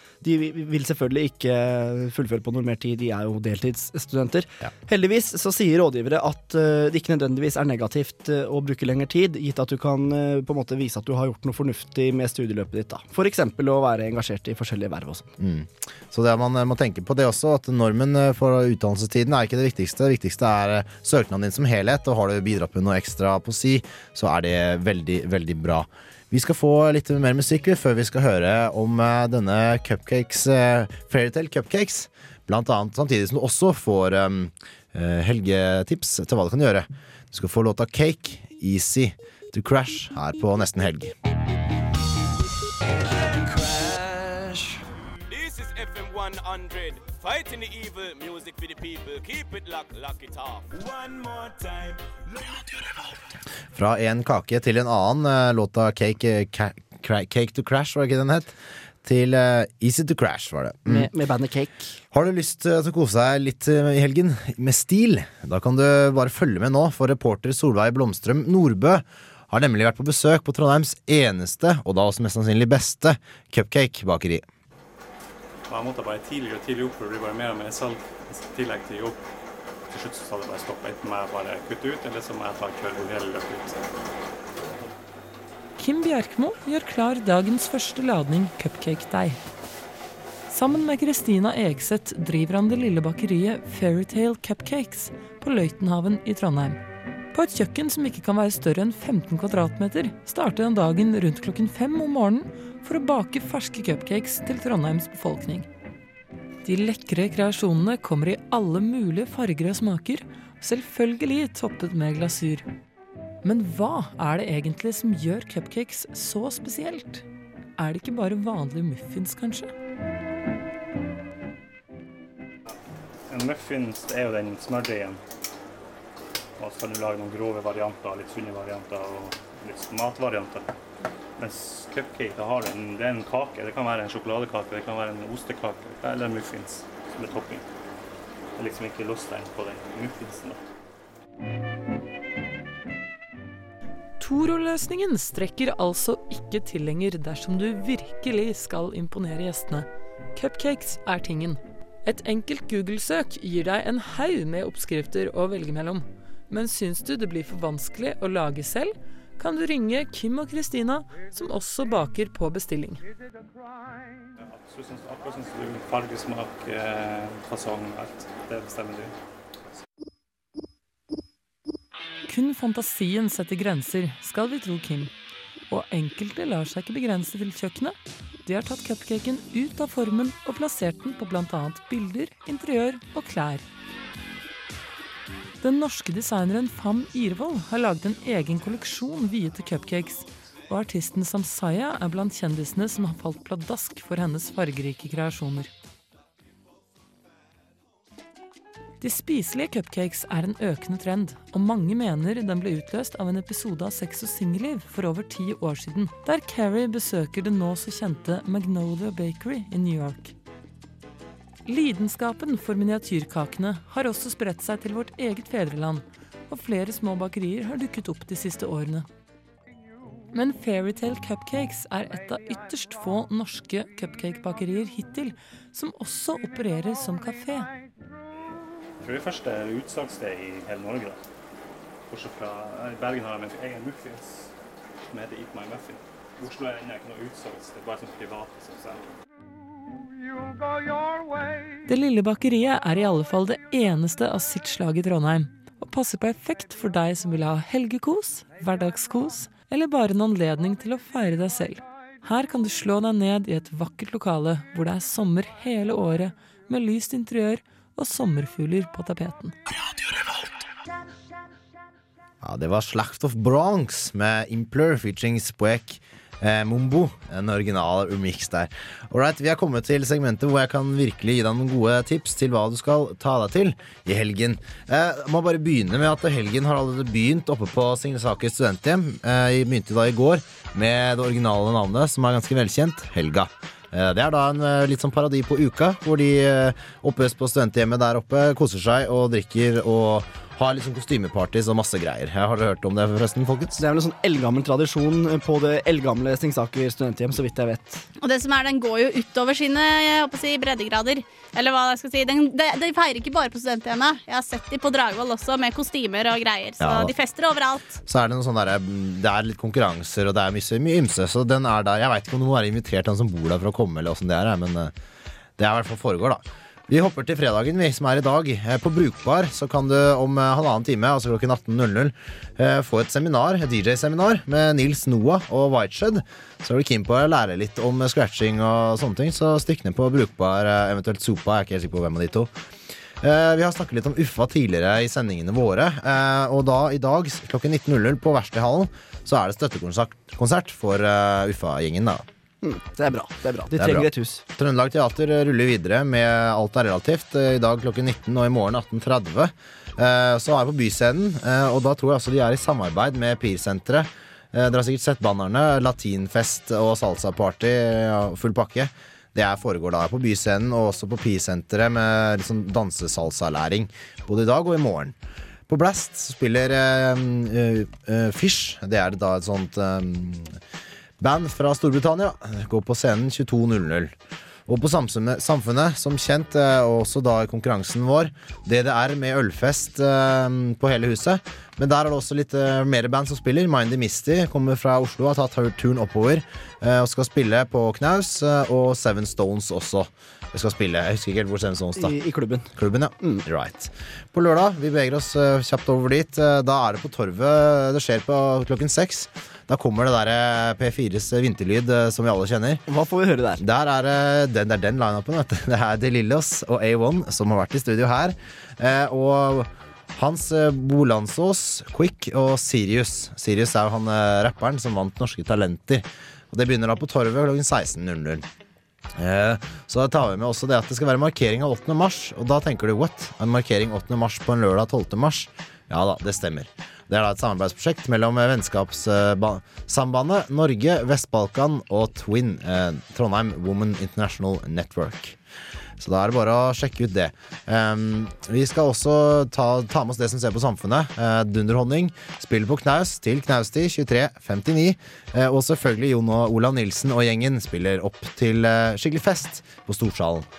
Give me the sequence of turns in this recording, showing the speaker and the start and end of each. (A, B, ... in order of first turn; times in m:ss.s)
0:00.2-0:15.3 A
0:15.4-0:41.1 B
0:43.1-0:44.8 C
0:50.8-0:52.0 C
0:53.7-1:01.1 B
1:00.9-1:02.0 A
1:02.1-1:14.4 B
1:15.7-1:19.2 D
1:19.9-1:23.8 D
1:25.8-1:29.4 E
1:30.5-1:36.8 E
1:37.3-1:45.7 E
1:46.6-1:52.6 E
1:53.4-1:57.2 E
1:57.8-1:59.7 E
2:03.3-2:05.2 D
2:06.6-2:10.7 D
2:11.4-2:17.6 D
2:18.6-2:20.6 D
2:24.2-2:43.0 E
2:44.5-2:49.1 D
2:52.3-2:55.1 E
2:55.7-3:03.6 E
3:05.6-3:15.7 E
3:19.0-3:30.3 E
3:31.6-3:39.1 E
3:40.3-3:47.7 E
3:49.0-3:51.2 D
3:52.1-3:54.5 D
3:55.0-3:59.1 D
4:01.8-4:19.5 E
4:22.4-4:53.8 B
4:53.8-4:58.0 A
4:58.2-5:08.0 F
5:06.8-5:07.1 B
5:08.0-5:14.9 B
5:15.6-5:32.5 B
5:33.2-5:42.2 B
5:42.6-5:44.4 A
5:43.7-6:05.1 B
6:05.7-6:10.6 B
6:11.2-6:14.1 B
6:14.7-6:32.2 B
6:32.0-6:32.7 A
6:32.8-6:42.8 B
6:42.9-6:43.6 A
6:43.6-6:58.5 B
6:59.2-7:15.4 B
7:16.0-7:30.5 B